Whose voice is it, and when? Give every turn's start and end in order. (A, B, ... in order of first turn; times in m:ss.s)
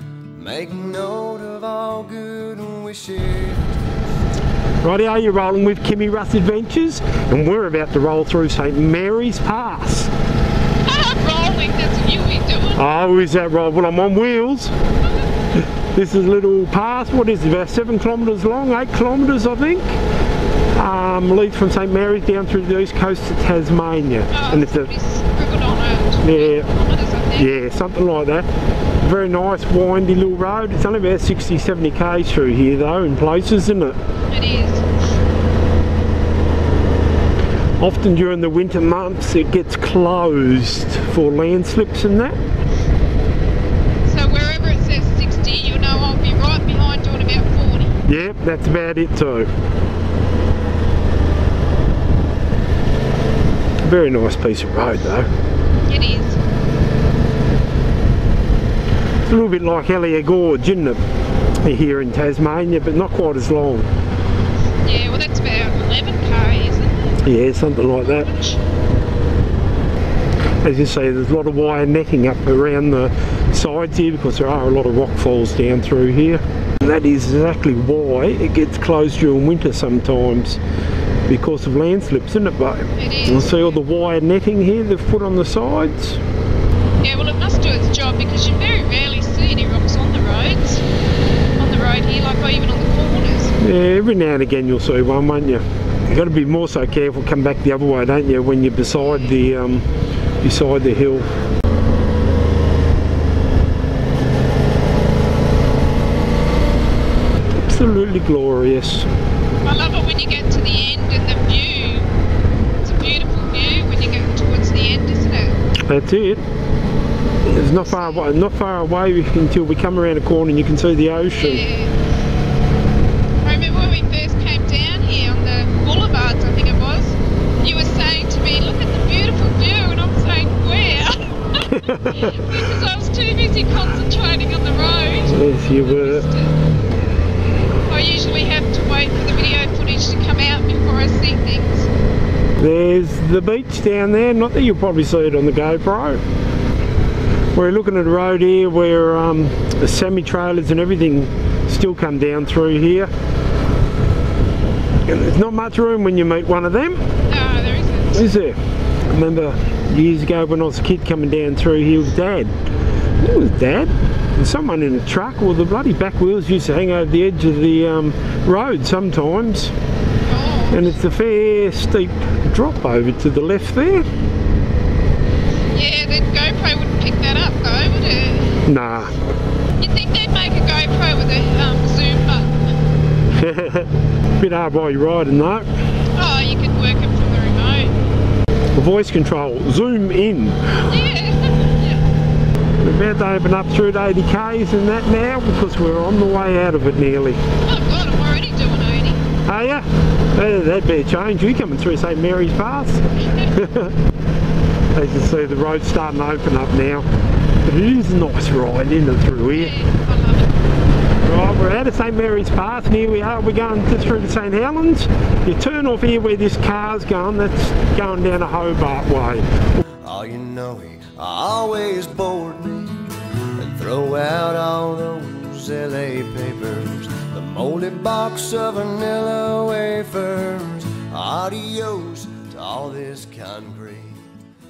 0:00.3-0:03.7 A
0:04.8-0:10.1 B
0:10.8-0:12.8 C
0:12.8-0:14.7 B
0:15.6-0:20.0 B
0:20.7-0:24.9 B
0:24.3-0:27.6 C
0:26.2-0:26.7 B
0:27.3-0:28.4 B
0:29.0-0:34.0 B
0:34.3-0:34.8 C
0:37.8-0:42.4 B
0:44.0-0:48.0 C
0:48.0-0:49.5 B
0:53.8-0:55.3 B
0:55.8-0:56.4 C
0:59.2-1:01.0 B
1:01.6-1:03.9 B
1:04.8-1:07.3 C
1:07.2-1:08.3 B
1:08.0-1:08.6 C
1:10.6-1:20.6 B
1:21.3-1:26.2 B
1:22.9-1:23.7 C
1:27.0-1:30.8 C
1:31.6-1:33.5 C
1:33.6-1:39.8 B
1:40.4-1:41.3 B
1:47.5-1:49.1 B
1:49.6-1:52.1 C
1:52.8-1:55.6 C
1:55.9-1:56.4 B
1:57.4-2:01.6 B
1:57.8-1:58.2 C
2:01.3-2:02.0 C
2:03.4-2:16.6 C
2:11.6-2:12.5 B
2:15.3-2:16.2 B
2:17.8-2:21.9 C
2:22.6-2:26.2 B
2:27.5-2:33.1 B
2:35.0-2:37.0 B
2:37.3-2:38.2 C
2:38.1-2:42.5 B
2:43.2-2:49.7 B
2:50.2-2:50.9 C
2:50.7-2:54.0 B
2:55.7-2:58.6 C
2:58.6-2:59.1 B
2:59.8-3:02.6 C
3:03.3-3:05.7 B
3:06.1-3:07.9 C
3:08.7-3:11.0 B
3:10.8-3:12.0 C
3:12.8-3:17.4 B
3:17.6-3:19.2 C
3:19.4-3:24.0 B
3:24.9-3:27.0 B
3:27.6-3:29.8 B
3:29.5-3:30.5 C
3:31.2-3:39.6 B
3:40.0-3:54.3 A